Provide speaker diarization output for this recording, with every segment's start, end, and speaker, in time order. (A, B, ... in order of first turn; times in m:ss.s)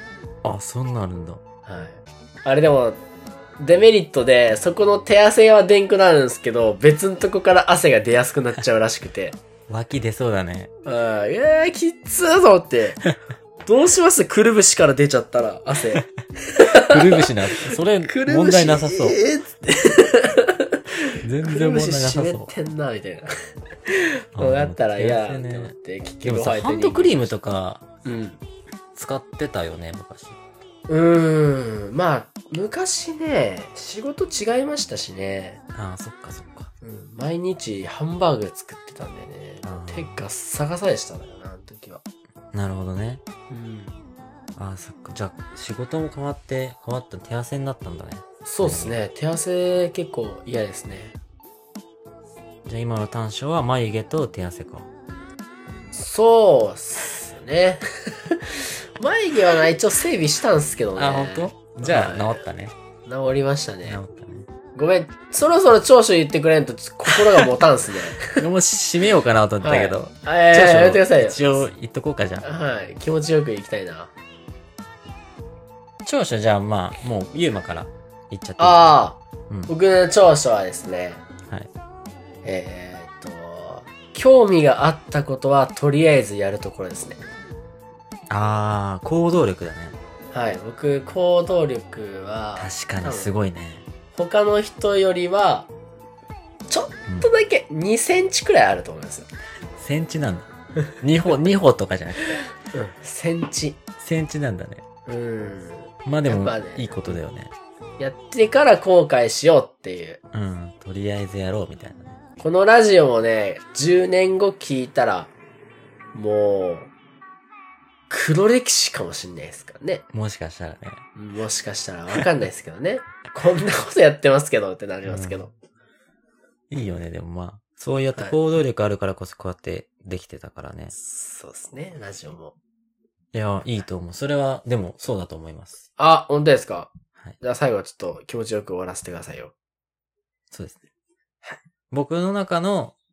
0:00.4-0:01.4 A
0:01.6-0:03.0 B
0:03.6-0:09.4 B
0:09.7-0:10.7 A
0:10.8-0:13.0 B
0:13.6-0:17.3 B
0:16.7-0:19.2 A
0:18.1-0:23.3 B
0:21.2-0:22.5 A
0:23.8-0:27.3 B
0:24.4-0:27.9 A
0:28.0-0:28.4 B
0:28.9-0:30.4 A
0:30.9-0:35.6 B
0:35.7-0:36.7 A
0:36.8-0:42.0 B
0:39.6-0:40.2 A
0:42.5-0:43.2 A
0:43.5-0:44.0 B
0:44.6-0:49.0 A
0:48.4-0:51.2 B
0:52.6-0:54.9 A
0:55.9-1:02.4 B
1:01.0-1:02.7 A
1:03.0-1:04.0 B
1:03.8-1:04.5 A
1:04.7-1:08.4 B
1:08.3-1:12.4 A
1:09.6-1:11.6 B
1:12.4-1:14.1 B
1:16.0-1:19.0 A
1:18.6-1:21.2 B
1:22.4-1:27.2 B
1:28.3-1:30.0 A
1:30.3-1:33.3 B
1:32.6-1:33.8 A
1:34.1-1:35.7 B
1:36.7-1:39.3 B
1:39.8-1:42.4 A
1:42.7-1:43.8 B
1:44.0-1:44.8 A
1:45.0-1:47.1 B
1:46.0-1:47.5 A
1:48.0-1:50.2 B
1:50.3-1:52.2 A
1:52.4-1:55.3 B
1:56.1-1:56.9 B
1:58.1-2:00.0 B
2:00.1-2:01.0 A
2:01.1-2:05.5 B
2:05.0-2:05.4 A
2:06.7-2:10.9 A
2:10.9-2:12.5 B
2:13.3-2:15.8 A
2:16.0-2:19.5 B
2:20.5-2:20.8 A
2:21.9-2:23.0 A